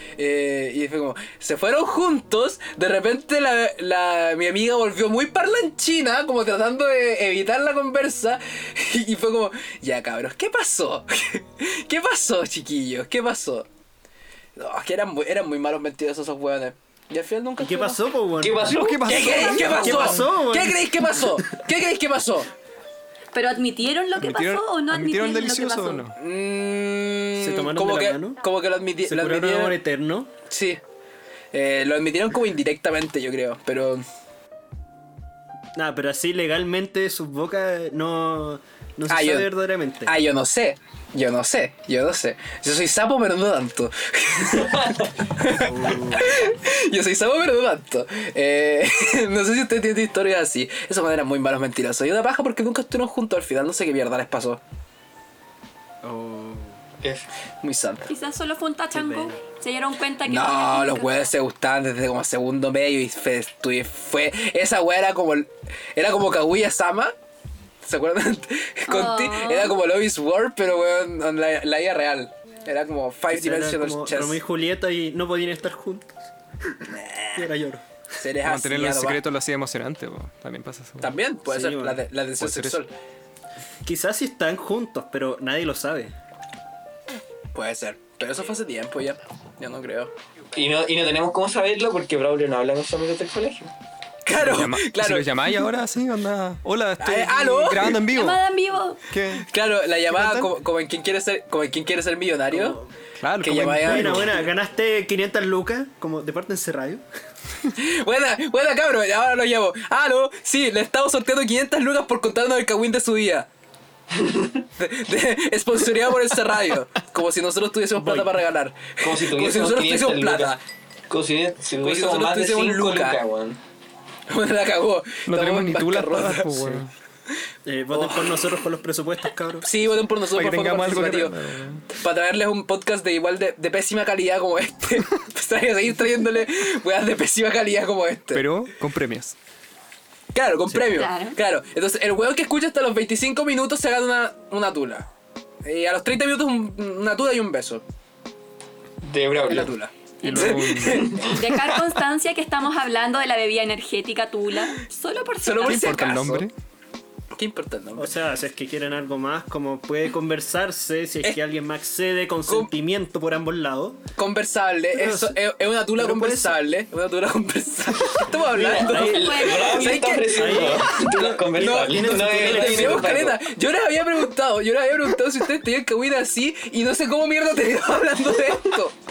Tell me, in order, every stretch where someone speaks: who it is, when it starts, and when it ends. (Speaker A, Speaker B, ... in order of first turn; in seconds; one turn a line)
Speaker A: 0.2-13.7
Speaker A: 14.6-18.0
Speaker B: 17.6-18.7
Speaker C: 18.4-19.7
Speaker D: 18.6-20.2
Speaker A: 19.1-22.5
Speaker B: 19.6-21.6
Speaker E: 23.3-26.1
Speaker D: 24.2-26.2
Speaker A: 26.2-29.8
Speaker B: 27.4-28.4
Speaker B: 29.0-30.3
Speaker A: 30.5-30.8
Speaker A: 31.5-34.0
Speaker B: 35.8-40.2
Speaker A: 39.1-39.5
Speaker A: 40.0-54.6
Speaker C: 44.6-45.1
Speaker B: 45.5-46.4
Speaker B: 56.0-56.8
Speaker C: 57.0-57.3
Speaker A: 57.6-58.1
Speaker E: 58.1-61.2
Speaker B: 58.9-59.4
Speaker A: 60.2-67.1
Speaker A: 67.8-74.4
Speaker E: 68.9-69.8
Speaker B: 73.3-76.2
Speaker A: 76.9-77.5
Speaker B: 77.3-77.8
Speaker A: 78.2-79.2
Speaker D: 78.4-81.1
Speaker A: 81.0-82.9
Speaker B: 81.5-82.0
Speaker D: 82.4-82.8
Speaker B: 83.8-86.1
Speaker A: 87.5-90.1
Speaker C: 90.5-93.7
Speaker A: 94.2-95.5
Speaker D: 94.3-98.4
Speaker A: 97.0-98.0
Speaker E: 98.1-99.0
Speaker D: 99.1-99.5
Speaker A: 99.4-102.8
Speaker D: 100.1-100.5
Speaker B: 102.5-102.9
Speaker D: 103.2-104.3
Speaker A: 103.4-104.4
Speaker B: 103.8-107.0
Speaker A: 107.8-113.5
Speaker C: 114.2-114.6
Speaker A: 114.8-120.6
Speaker B: 118.0-118.3
Speaker C: 119.0-120.5
Speaker C: 121.1-123.6
Speaker A: 121.8-123.2
Speaker A: 124.3-126.7
Speaker D: 125.3-126.9
Speaker B: 127.7-129.7
Speaker A: 128.0-128.4
Speaker A: 129.6-131.4
Speaker D: 130.3-131.8
Speaker A: 131.9-138.5
Speaker D: 138.3-139.3
Speaker A: 140.3-145.1
Speaker E: 140.9-141.4
Speaker A: 145.6-147.8
Speaker C: 149.0-149.7
Speaker A: 149.5-151.2
Speaker D: 150.2-151.9
Speaker E: 150.2-156.0
Speaker C: 150.9-151.2
Speaker A: 155.4-156.5
Speaker D: 155.6-156.5
Speaker A: 157.3-158.1
Speaker B: 158.0-164.0
Speaker A: 164.2-178.9
Speaker B: 164.9-166.6
Speaker B: 168.4-169.6
Speaker C: 168.6-173.4
Speaker E: 169.1-169.9
Speaker B: 170.3-173.3